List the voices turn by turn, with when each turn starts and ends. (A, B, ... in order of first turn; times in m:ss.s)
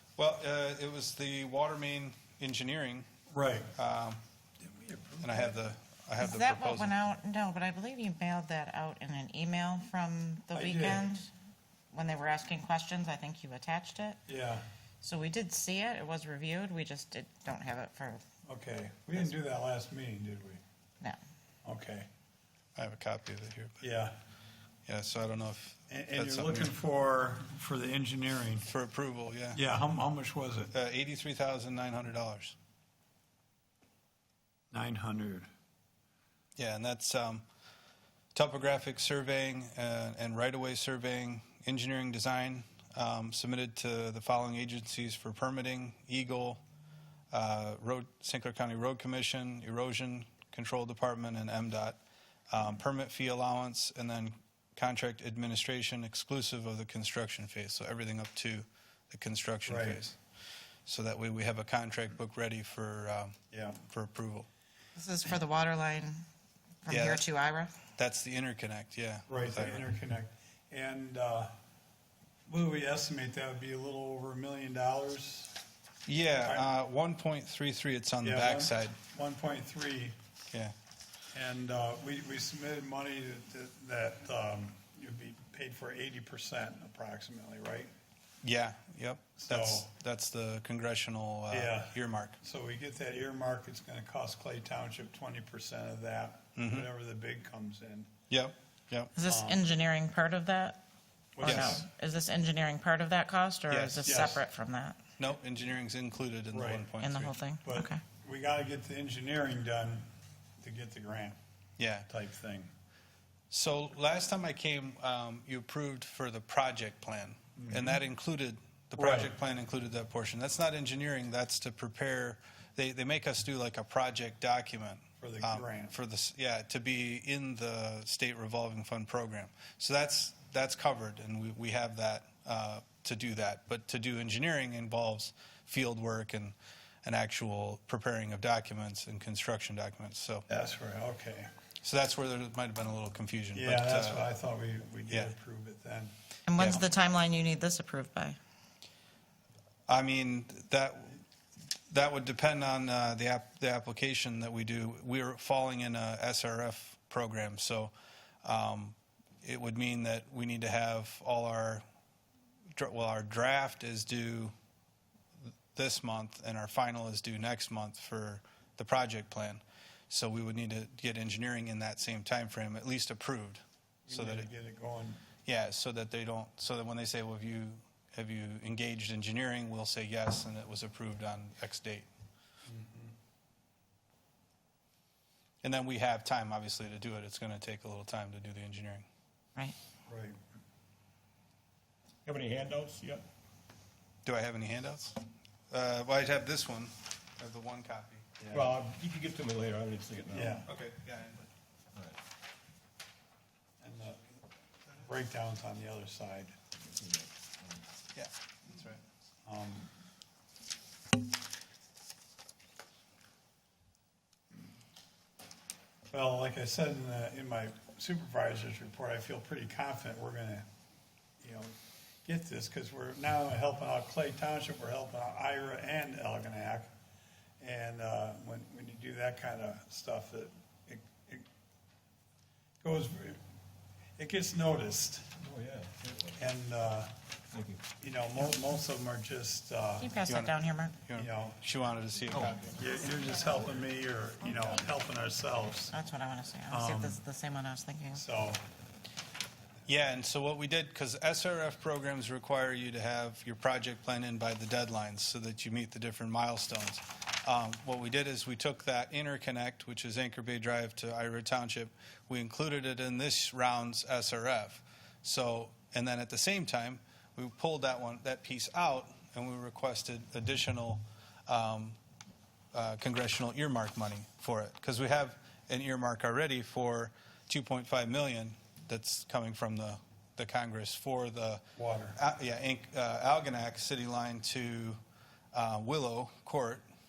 0:00.2-0:03.1 A
0:03.3-0:03.7 B
0:03.8-0:04.2 A
0:05.2-0:07.0 A
0:06.2-0:11.3 C
0:10.6-0:11.1 B
0:11.9-0:14.2 C
0:14.3-0:14.6 B
0:15.0-0:18.2 C
0:18.5-0:20.6 B
0:21.6-0:22.1 B
0:22.8-0:23.8 A
0:23.8-0:24.2 B
0:24.9-0:26.8 A
0:25.9-0:28.7 B
0:28.6-0:29.6 A
0:29.5-0:30.7 B
0:30.7-0:32.6 A
0:34.7-0:35.5 B
0:36.6-0:37.4 A
0:38.4-0:46.6 A
0:47.3-0:52.0 A
0:52.5-1:00.2 A
0:59.7-1:00.0 B
1:00.9-1:04.5 A
1:03.5-1:03.8 B
1:05.0-1:06.2 C
1:06.8-1:07.7 C
1:06.9-1:07.3 A
1:08.0-1:09.9 A
1:09.3-1:11.5 B
1:12.5-1:15.6 B
1:16.1-1:19.0 A
1:18.2-1:20.2 B
1:21.3-1:27.9 B
1:28.4-1:32.4 A
1:29.4-1:29.9 B
1:31.5-1:38.1 B
1:36.6-1:36.9 A
1:38.3-1:39.1 A
1:39.2-1:40.8 C
1:39.2-1:39.6 B
1:41.4-1:41.9 B
1:41.4-1:45.0 C
1:41.4-1:41.8 A
1:43.7-1:44.3 A
1:44.0-1:44.4 B
1:45.2-1:47.4 A
1:46.5-1:46.9 B
1:47.0-1:48.0 C
1:47.6-1:50.1 B
1:50.6-1:51.4 B
1:51.8-1:52.1 A
1:52.1-1:52.7 B
1:53.5-2:20.5 A
1:57.6-1:58.0 B
1:59.0-1:59.3 B
2:05.2-2:06.0 B
2:20.5-2:21.5 B
2:21.8-2:24.3 A
2:23.6-2:26.1 B
2:26.5-2:28.4 C
2:26.6-2:26.8 A
2:29.9-2:31.2 A
2:31.9-2:37.9 A
2:38.4-2:41.8 A
2:42.7-2:44.5 A
2:45.8-2:54.5 A
2:54.1-2:55.2 B
2:55.4-3:02.1 A
3:02.7-3:03.1 B
3:05.6-3:09.1 A
3:10.1-3:10.4 B
3:12.2-3:13.3 D
3:14.2-3:15.2 A
3:15.7-3:18.6 A
3:18.5-3:20.6 D
3:20.3-3:20.7 B
3:20.7-3:21.5 A
3:23.8-3:24.3 B
3:25.0-3:26.6 B
3:26.8-3:27.8 D
3:28.1-3:29.0 A
3:29.5-3:29.9 B
3:36.1-3:40.7 B
3:41.4-3:46.9 B
3:47.6-3:51.5 B
3:52.8-3:53.4 B
3:54.2-3:55.3 B
3:55.4-3:56.4 D
3:56.4-3:57.1 B
3:57.5-3:57.8 D
3:58.0-4:00.1 B
4:00.0-4:01.0 C
4:00.3-4:02.8 A
4:01.1-4:01.6 B
4:02.3-4:02.6 D
4:02.7-4:05.9 B
4:05.9-4:08.2 C
4:06.7-4:07.2 B
4:08.2-4:08.6 B
4:09.9-4:32.0 A
4:32.7-4:45.0 A
4:41.8-4:42.2 B
4:45.5-4:46.8 A